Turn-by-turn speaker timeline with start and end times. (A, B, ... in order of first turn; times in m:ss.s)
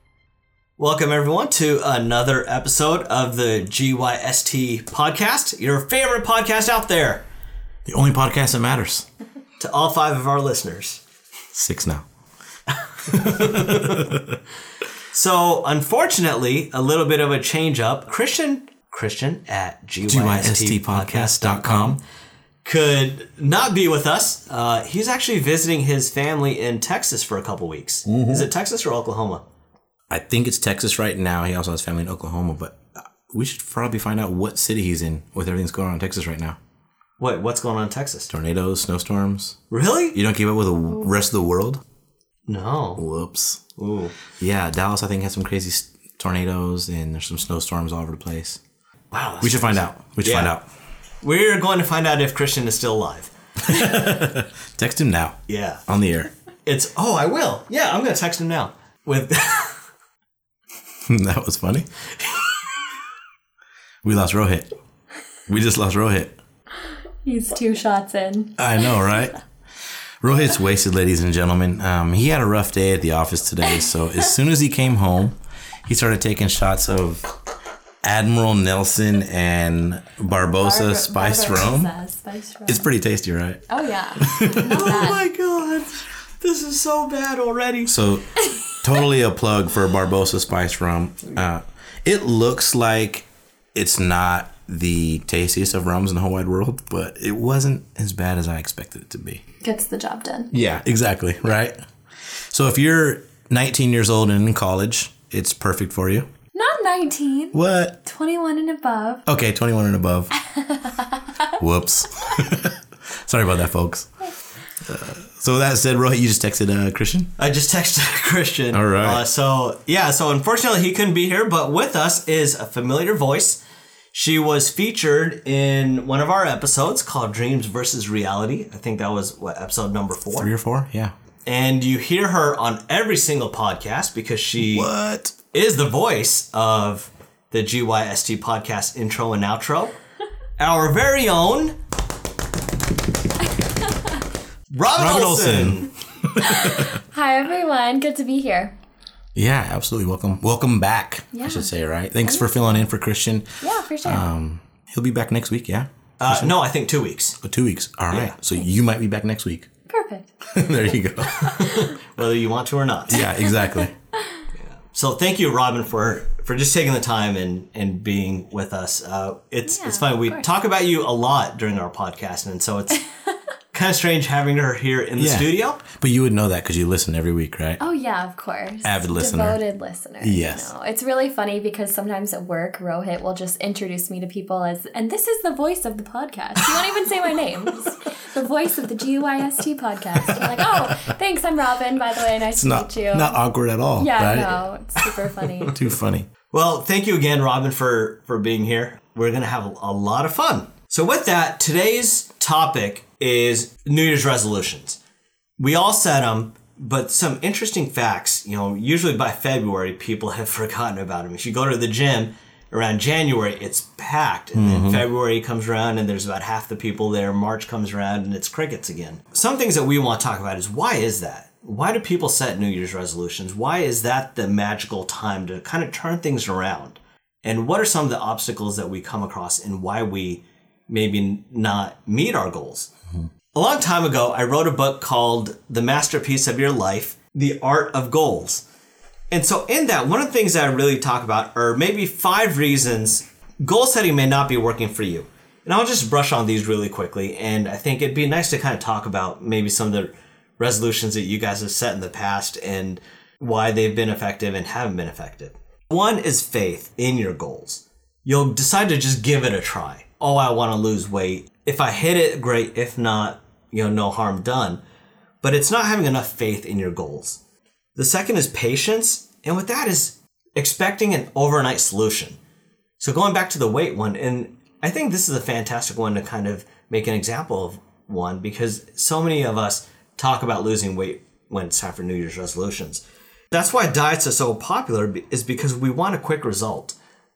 0:00.8-0:07.2 A
0:07.9-0:09.1 B
0:09.6-0:11.0 A
0:11.5-0:12.0 B
0:13.0-0:14.4 B
0:13.1-0:14.1 A
0:15.1-0:22.0 A
0:20.0-0:22.0 B
0:22.6-0:29.4 A
0:28.1-0:28.4 B
0:30.1-0:36.6 B
0:37.2-0:38.3 A
0:38.3-0:39.6 B
0:39.7-0:40.2 A
0:40.1-0:41.8 B
0:42.5-0:43.0 A
0:43.0-0:43.6 B
0:43.8-0:44.2 A
0:44.4-0:48.6 B
0:49.1-0:50.5 A
0:49.4-0:50.7 B
0:51.2-0:54.2 A
0:53.6-0:56.3 B
0:55.5-0:55.8 A
0:56.6-0:59.8 A
1:01.0-1:01.9 B
1:02.2-1:02.7 A
1:04.0-1:04.7 B
1:05.5-1:06.4 B
1:07.2-1:09.1 C
1:08.6-1:09.4 B
1:10.2-1:17.3 B
1:18.0-1:21.9 B
1:20.6-1:22.9 C
1:22.6-1:24.8 B
1:23.7-1:25.2 C
1:24.6-1:27.9 A
1:27.8-1:39.4 B
1:28.4-1:28.7 C
1:39.6-1:40.5 C
1:40.5-1:46.3 B
1:46.5-1:49.2 C
1:47.5-1:48.0 B
1:49.3-1:50.3 B
1:50.4-1:51.6 C
1:51.6-1:57.3 B
1:57.4-2:03.6 A
1:58.7-1:59.2 B
2:04.1-2:10.5 A
2:10.3-2:11.1 B
2:11.4-2:14.9 A
2:14.6-2:15.4 B
2:15.5-2:20.0 A
2:20.6-2:21.8 A
2:24.7-2:25.9 A
2:24.9-2:27.0 B
2:26.4-2:28.7 C
2:29.3-2:36.5 B
2:31.3-2:31.7 C
2:32.2-2:32.9 C
2:33.6-2:34.3 C
2:36.2-2:37.4 A
2:37.4-2:39.7 B
2:39.9-2:40.4 C
2:40.5-2:41.7 B
2:41.4-2:41.9 C
2:41.6-2:43.2 A
2:43.1-2:43.9 B
2:43.1-2:44.4 C
2:44.8-2:53.0 A
2:49.6-2:50.5 C
2:53.7-2:55.8 A
2:55.2-2:57.8 B
2:57.8-3:13.4 C
2:58.8-2:59.6 B
3:00.2-3:00.7 B
3:10.4-3:11.1 B
3:12.5-3:14.6 B
3:14.0-3:15.8 C
3:15.7-3:16.3 B
3:16.5-3:25.0 A
3:25.6-3:52.9 A
3:34.5-3:35.0 B
3:53.5-3:58.6 A
3:59.3-4:24.8 A
4:25.4-4:27.4 A
4:28.0-4:32.4 A
4:33.0-4:47.0 A